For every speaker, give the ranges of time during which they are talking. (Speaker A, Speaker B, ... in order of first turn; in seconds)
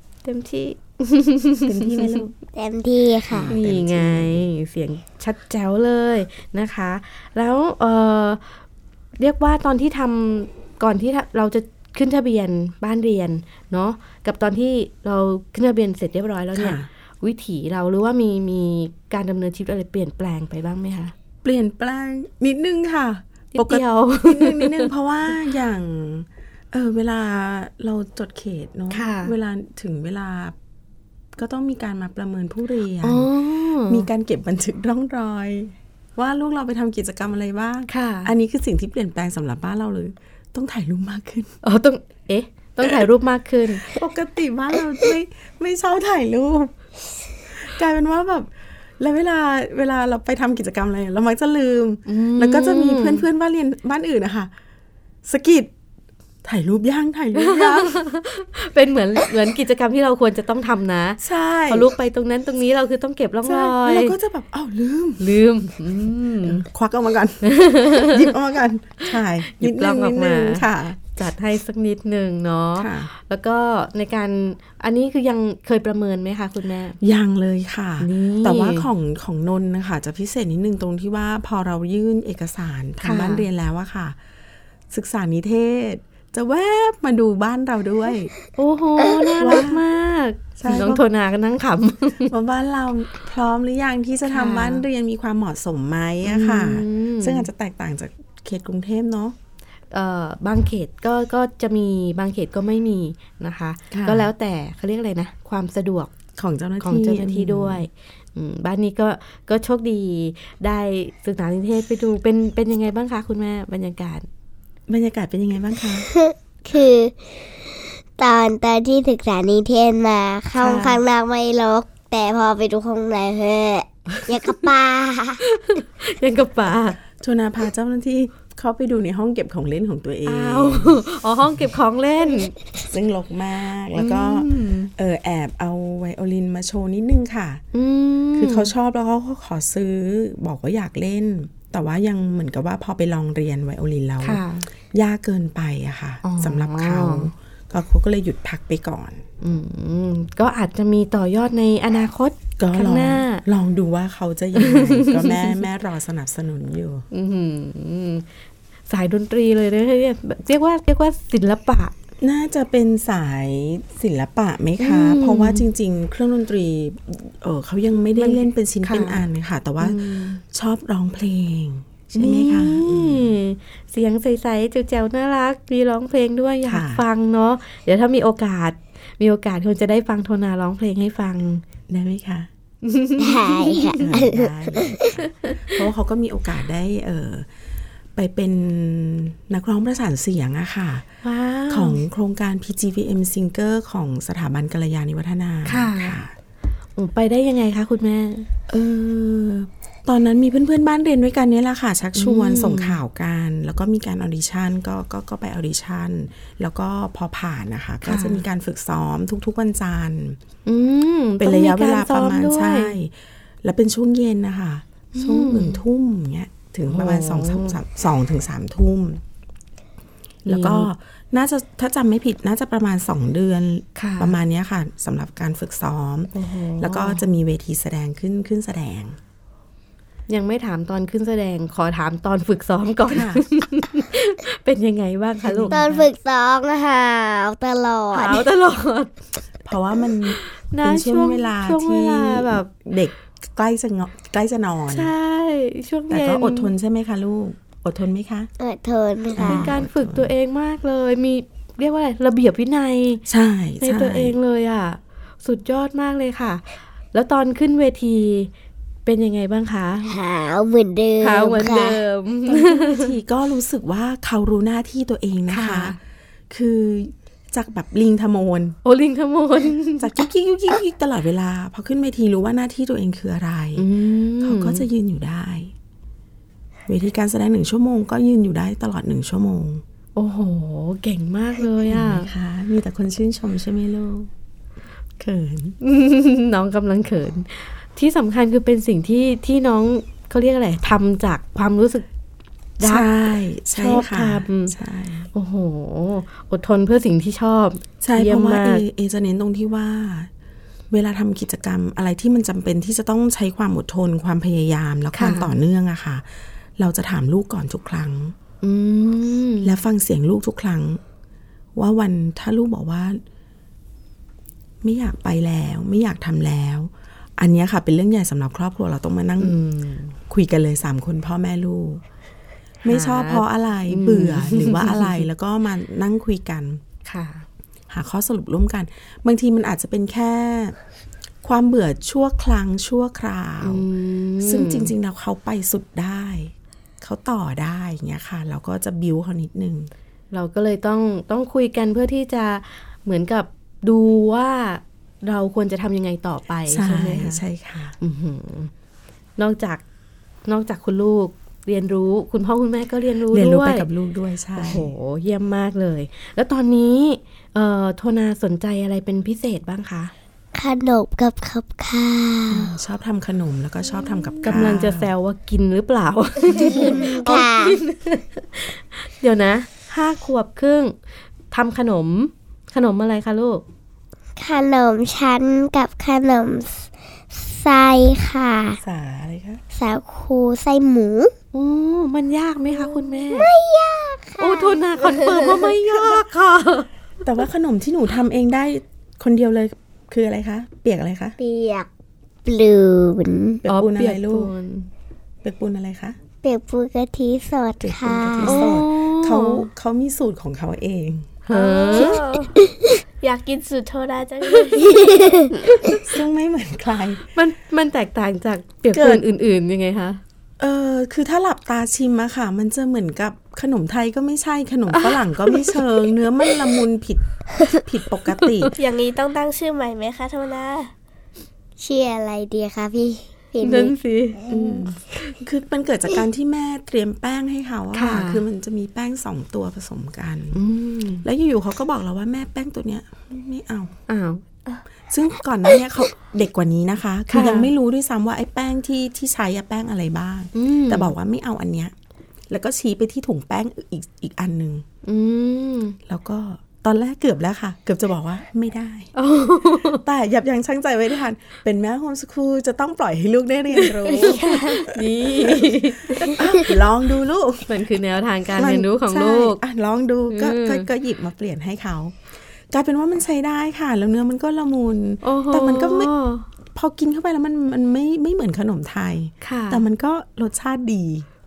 Speaker A: 0.2-2.2, 3.5-8.4, 9.2-21.1, 23.5-24.9, 28.9-29.3, 33.0-34.1, 37.9-38.3, 41.6-43.9, 52.1-53.2, 57.4-64.2, 65.2-66.6, 67.4-68.3, 69.4-77.0, 78.0-78.9, 83.0-83.5, 88.6-92.3, 94.2-94.8, 96.2-97.5, 99.9-106.1, 106.8-114.3, 120.6-121.0, 125.4-127.0, 130.2-132.5, 133.9-134.9, 137.7-138.7, 144.2-144.7, 146.2-147.3, 149.4-153.4, 154.6-155.6, 157.1-158.2, 158.9-161.9, 164.8-165.7, 168.2-169.2, 169.8-170.4, 172.1-181.6, 182.8-184.2, 191.2-192.0, 195.6-196.2, 196.9-198.5, 202.2-203.0, 208.0-208.4, 210.7-213.0, 215.1-215.8, 216.9-217.8, 220.5-220.9, 223.9-224.4, 226.3-227.3, 230.3-235.9, 238.1-239.1, 240.4-242.7, 244.9-246.7, 249.4-253.2, 253.8-258.5, 259.1-260.1, 261.2-263.1, 265.5-266.0, 268.8-270.1, 273.8-274.8, 280.1-282.3, 285.8-292.1, 292.8-293.1, 293.7-294.8, 295.3-298.8, 305.1-305.5, 308.6-309.8, 319.4-320.2, 322.8-325.2, 327.1-327.4, 333.6-334.9, 340.3-347.4, 348.0-348.7, 349.4-349.8, 350.4-353.9, 354.6-360.1, 364.4-370.9, 371.5-373.6, 381.5-383.5, 384.4-386.9, 393.7-394.9, 398.4-399.7, 401.5-402.2, 407.3-410.2, 414.9-415.8, 418.4-418.7, 423.6-425.4, 427.9-428.4, 430.5-431.2, 434.1-434.4, 437.3-437.7, 440.5-441.1, 445.0-446.0, 449.1-450.0, 453.8-456.7, 457.7-459.6, 460.3-460.9, 465.2-466.4, 469.4-469.8
Speaker B: 1.6-2.3, 3.3-4.5, 16.5-16.9, 21.4-30.5, 31.3-33.3, 33.8-41.5, 43.8-46.7, 47.5-54.5, 55.2-55.7, 56.4-58.0, 61.2-61.9, 63.4-65.3, 66.4-71.0, 72.8-73.1, 77.0-84.2, 84.9-88.3, 89.4-89.8, 90.6-91.0, 92.3-99.3, 103.9-104.3, 106.3-107.9, 114.9-116.1, 127.1-131.0, 132.9-137.6, 138.3-149.2, 152.6-157.1, 162.2-173.3, 176.7-177.0, 181.9-182.5, 184.0-187.5, 188.1-191.1, 191.7-196.3, 198.7-210.4, 211.4-219.2, 220.4-229.2, 233.1-233.4, 235.4-236.1, 239.6-245.1, 246.1-248.5, 249.3-250.3, 253.3-254.3, 262.5-266.0, 266.5-268.8, 270.0-273.9, 274.4-275.7, 276.9-279.8, 281.8-284.3, 285.2-285.8, 292.8-295.3, 298.0-300.3, 300.9-308.4, 309.6-311.0, 311.8-313.2, 314.8-319.6, 320.3-322.0, 322.8-326.8, 327.9-330.8, 331.4-333.9, 334.4-339.9, 346.7-347.9, 353.3-354.9, 362.5-365.1, 366.5-366.9, 378.8-379.6, 385.9-386.2, 387.2-391.4, 393.6-394.5, 395.4-396.2, 397.8-401.4, 405.9-407.3, 408.9-409.2, 410.6-418.7, 424.5-430.6, 431.2-433.9, 435.1-441.9, 442.5-444.8, 446.1-449.1, 449.9-457.8, 458.6-462.2, 462.7-466.1, 466.7-471.3
Speaker C: 2.5-3.5, 116.0-125.4, 183.2-185.1, 235.7-238.4, 248.6-249.7, 260.1-262.0, 360.5-362.7, 366.6-367.8, 374.4-378.8, 379.7-381.3, 382.8-385.7, 391.4-391.9, 392.4-393.6, 396.4-398.7, 402.6-402.9, 404.8-405.5, 421.8-423.9
Speaker D: 401.5-402.6, 403.2-405.3, 418.8-420.9